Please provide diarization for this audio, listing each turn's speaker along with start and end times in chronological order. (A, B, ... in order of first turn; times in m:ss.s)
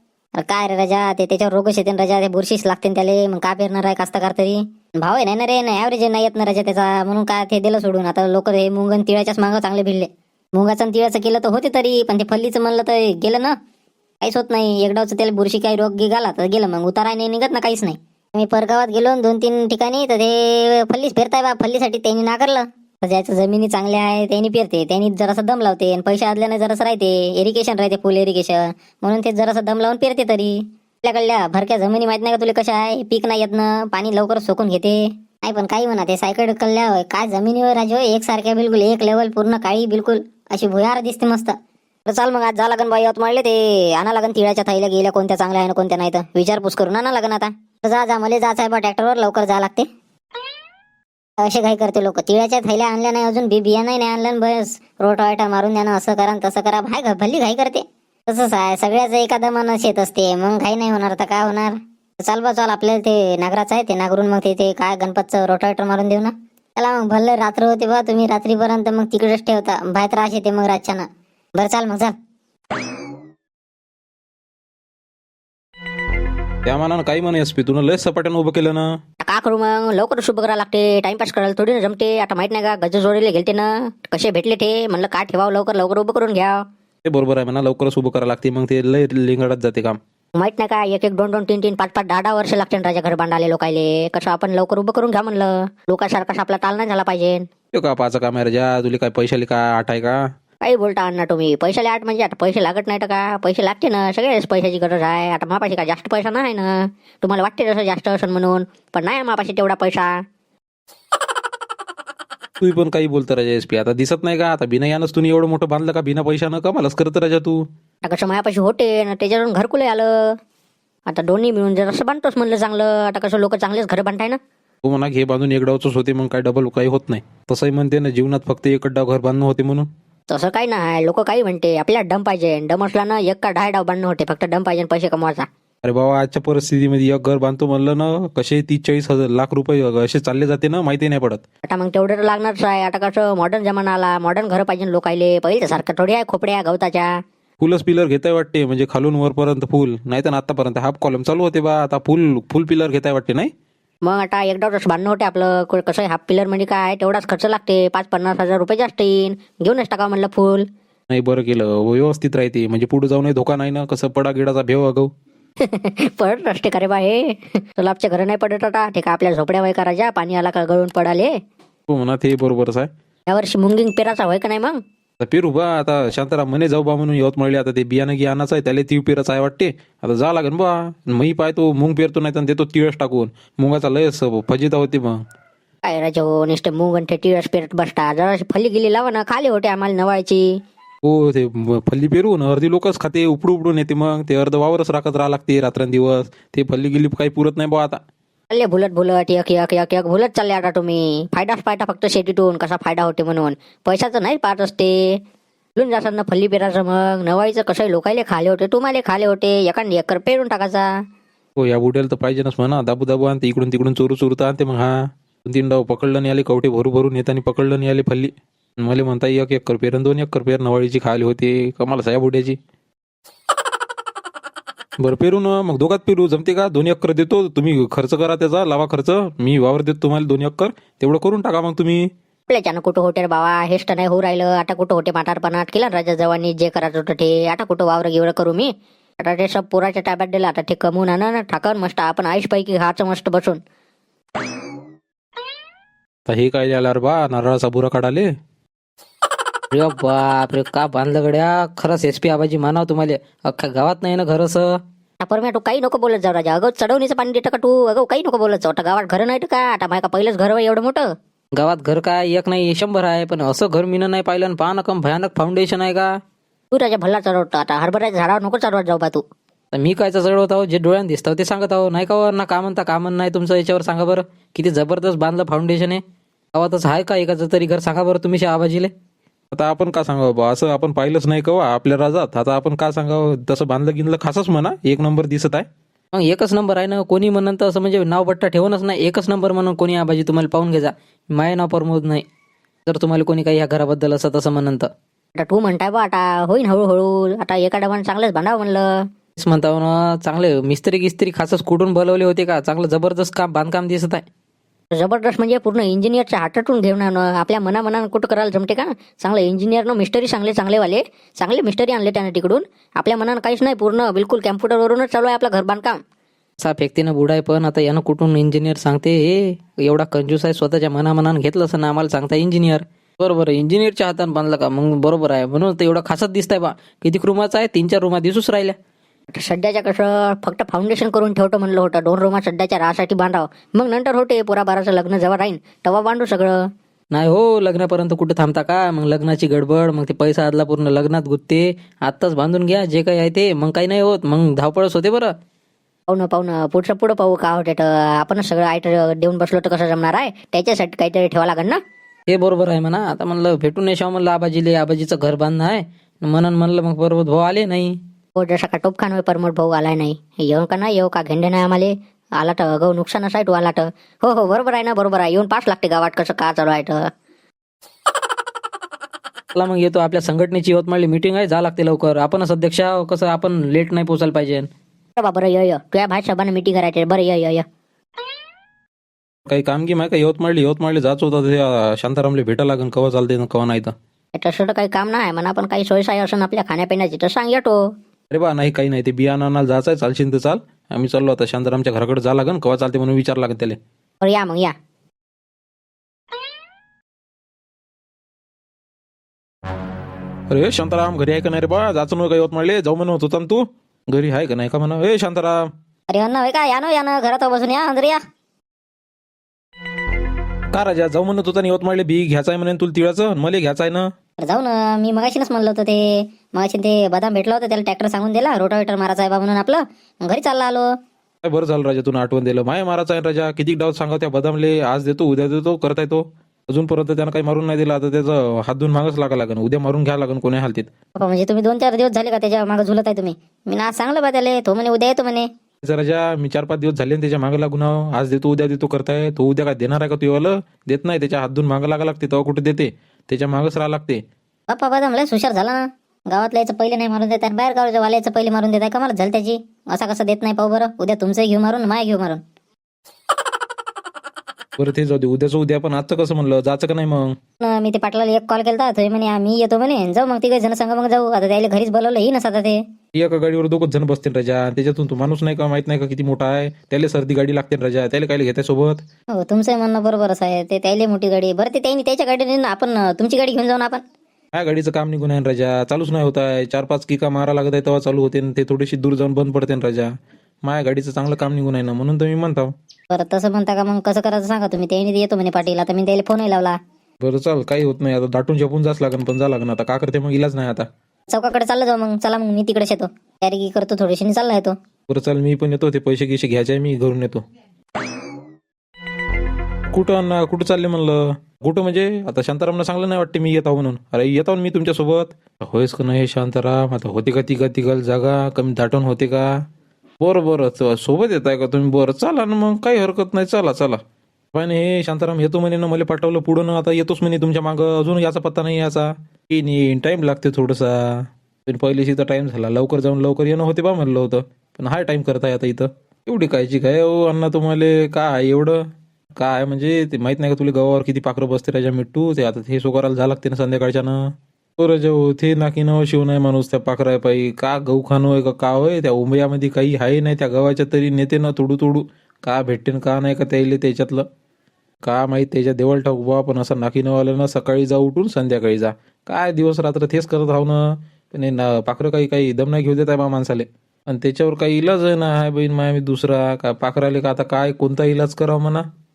0:00.4-0:13.5 A
0:14.2-0:49.9 A
0:51.4-1:12.1 A
1:16.6-1:18.9 B
1:19.2-1:26.6 A
1:27.0-1:30.0 B
1:30.4-1:37.5 A
1:37.7-1:40.2 B
1:40.6-1:50.2 A
1:52.6-1:57.6 B
1:58.0-2:00.4 A
2:01.1-2:04.4 A
2:04.8-2:09.9 B
2:10.3-2:15.5 A
2:15.8-2:21.4 B
2:21.7-2:27.2 A
2:27.6-2:33.5 B
2:34.0-2:40.7 A
2:41.1-2:45.1 B
2:45.6-2:51.3 A
2:51.9-2:52.9 B
2:53.3-2:54.8 A
2:55.2-3:05.2 B
3:05.9-3:10.5 A
3:11.0-3:18.0 B
3:18.5-3:25.2 A
3:25.8-3:30.9 A
3:31.6-3:34.9 B
3:35.4-3:42.6 B
3:45.0-3:52.1 B
3:52.5-4:03.6 A
4:06.3-4:08.3 B
4:09.7-4:13.1 A
4:11.0-4:14.6 C
4:13.6-4:14.5 A
4:15.2-4:21.1 A
4:21.6-4:25.8 C
4:26.7-4:29.2 A
4:29.7-4:36.0 C
4:31.6-4:33.1 A
4:34.7-4:35.9 A
4:36.5-4:37.2 C
4:36.7-4:38.9 A
4:38.1-4:38.8 C
4:39.5-4:45.6 B
4:46.1-4:50.8 C
4:46.3-4:52.1 A
4:51.3-4:52.2 C
4:52.9-4:54.8 C
4:53.1-4:53.9 A
4:55.4-4:59.0 A
4:59.4-5:04.2 C
5:01.6-5:04.1 A
5:04.9-5:16.0 A
5:16.6-5:28.7 C
5:18.4-5:19.2 A
5:20.0-5:22.8 A
5:29.3-5:36.6 A
5:37.1-5:45.3 C
5:38.2-5:40.5 A
5:44.0-5:44.8 A
5:46.1-5:51.8 A
5:52.3-5:58.0 C
5:58.4-6:07.0 A
6:09.5-6:14.7 C
6:15.2-6:17.6 A
6:19.5-6:23.9 B
6:24.4-6:27.9 A
6:28.3-6:33.8 B
6:34.2-6:34.7 A
6:40.5-6:45.6 B
6:46.1-6:48.2 A
6:50.7-6:54.1 B
6:54.4-7:00.9 A
7:01.4-7:10.9 B
7:11.2-7:15.5 A
7:15.8-7:24.2 B
7:24.7-7:32.4 A
7:34.8-7:37.3 B
7:37.6-7:42.8 A
7:43.1-7:49.0 B
7:49.3-7:54.0 A
7:54.5-8:00.1 B
8:00.6-8:02.7 B
8:03.1-8:06.8 A
8:07.2-8:10.8 B
8:11.3-8:14.7 A
8:15.1-8:17.4 B
8:19.9-8:29.5 B
8:30.2-8:34.0 B
8:34.5-8:48.8 B
8:49.4-8:54.2 B
8:54.8-9:04.2 B
9:05.0-9:18.8 B